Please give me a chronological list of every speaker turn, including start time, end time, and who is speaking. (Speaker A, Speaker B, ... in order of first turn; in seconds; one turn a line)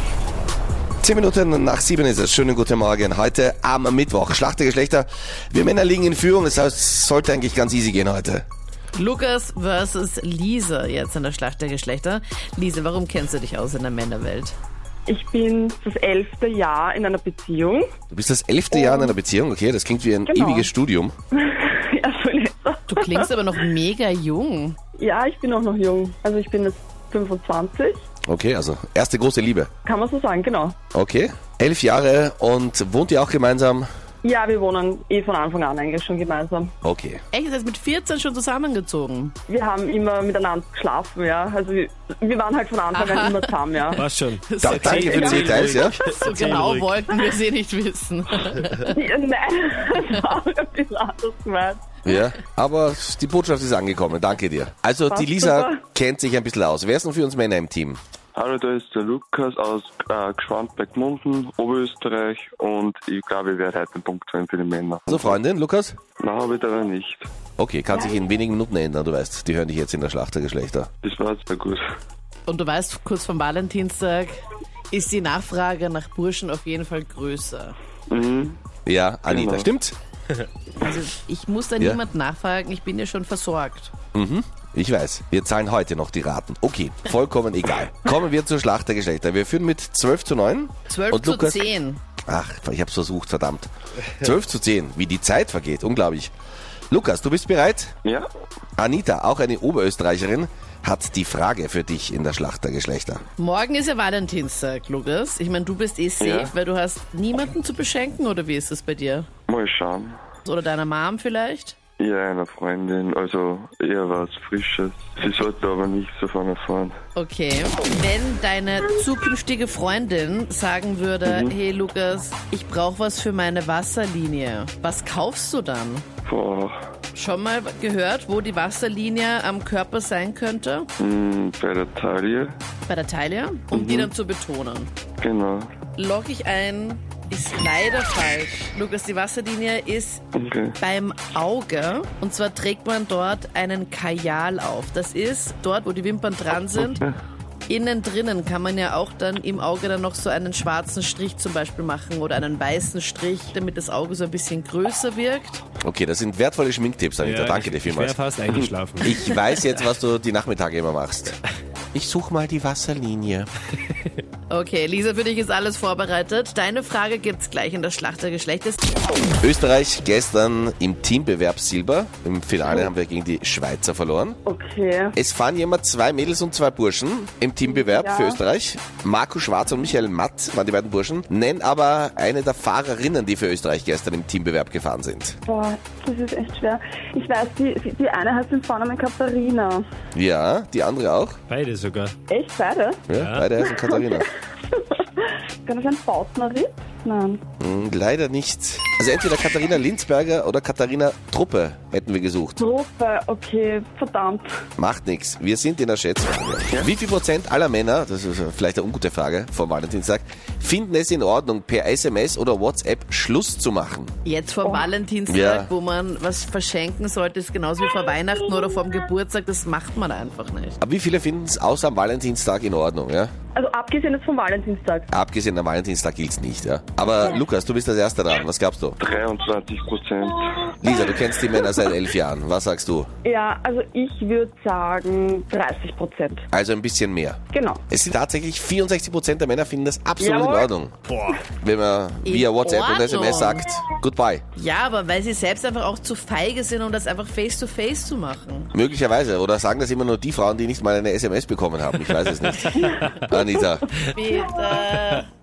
Speaker A: 1.0-8.4
Speaker B: 8.9-14.6
Speaker C: 15.1-17.9
Speaker A: 18.1-21.1
Speaker C: 18.7-19.1
Speaker C: 20.3-20.7
Speaker C: 21.3-23.3
Speaker B: 22.9-24.8
Speaker C: 25.0-28.0
Speaker A: 28.2-29.7
Speaker C: 29.9-30.8
Speaker A: 30.9-33.9
Speaker C: 34.2-36.7
Speaker A: 36.8-37.2
Speaker B: 37.3-39.4
Speaker C: 39.5-44.0
Speaker B: 42.9-48.9
Speaker D: 44.0-47.0
Speaker A: 44.6-46.0
Speaker C: 45.1-45.4
Speaker C: 48.8-51.8
Speaker A: 52.0-58.0
Speaker C: 55.1-55.8
Speaker E: 58.4-65.4
Speaker A: 65.1-66.0
Speaker E: 66.2-67.3
Speaker A: 67.6-70.9
Speaker E: 71.0-71.8
Speaker B: 72.5-77.8
Speaker E: 78.1-78.6
Speaker A: 78.9-80.0
Speaker E: 79.3-79.7
Speaker B: 80.8-83.9
Speaker A: 84.1-91.7
Speaker B: 90.9-92.0
Speaker A: 92.3-96.3
Speaker A: 96.9-97.9
Speaker A: 98.8-103.2
Speaker B: 103.4-109.3
Speaker E: 106.2-106.5
Speaker E: 109.5-110.2
Speaker B: 110.5-111.8
Speaker E: 112.0-117.0
Speaker B: 117.2-126.1
Speaker E: 121.2-121.6
Speaker E: 126.2-126.8
Speaker B: 127.1-130.9
Speaker E: 131.0-132.6
Speaker B: 132.9-134.9
Speaker E: 133.7-134.1
Speaker E: 135.2-135.7
Speaker B: 136.0-140.2
Speaker E: 140.3-140.8
Speaker B: 140.8-147.1
Speaker B: 147.7-155.6
Speaker A: 155.8-158.2
Speaker D: 157.2-159.3
Speaker A: 159.0-161.4
Speaker A: 161.9-163.5
Speaker B: 164.5-169.0
Speaker A: 169.4-174.4
Speaker C: 174.5-175.1
Speaker A: 175.1-185.4
Speaker C: 177.7-178.4
Speaker C: 185.5-189.8
Speaker A: 190.1-191.4
Speaker D: 191.5-192.2
Speaker C: 192.3-193.1
Speaker A: 193.1-194.3
Speaker D: 193.1-193.5
Speaker C: 193.6-195.0
Speaker C: 195.7-197.4
Speaker A: 197.6-202.6
Speaker C: 202.6-204.5
Speaker A: 204.8-214.1
Speaker B: 214.2-220.8
Speaker A: 215.3-215.7
Speaker A: 220.8-223.3
Speaker C: 223.6-225.1
Speaker A: 225.1-229.0
Speaker E: 229.0-230.7
Speaker A: 230.8-233.1
Speaker C: 233.2-236.4
Speaker A: 236.5-241.0
Speaker C: 237.5-237.8
Speaker C: 240.2-240.7
Speaker D: 241.1-241.4
Speaker A: 241.5-244.4
Speaker B: 242.2-243.7
Speaker B: 244.6-248.7
Speaker A: 248.7-253.9
Speaker C: 252.7-253.1
Speaker B: 254.1-255.3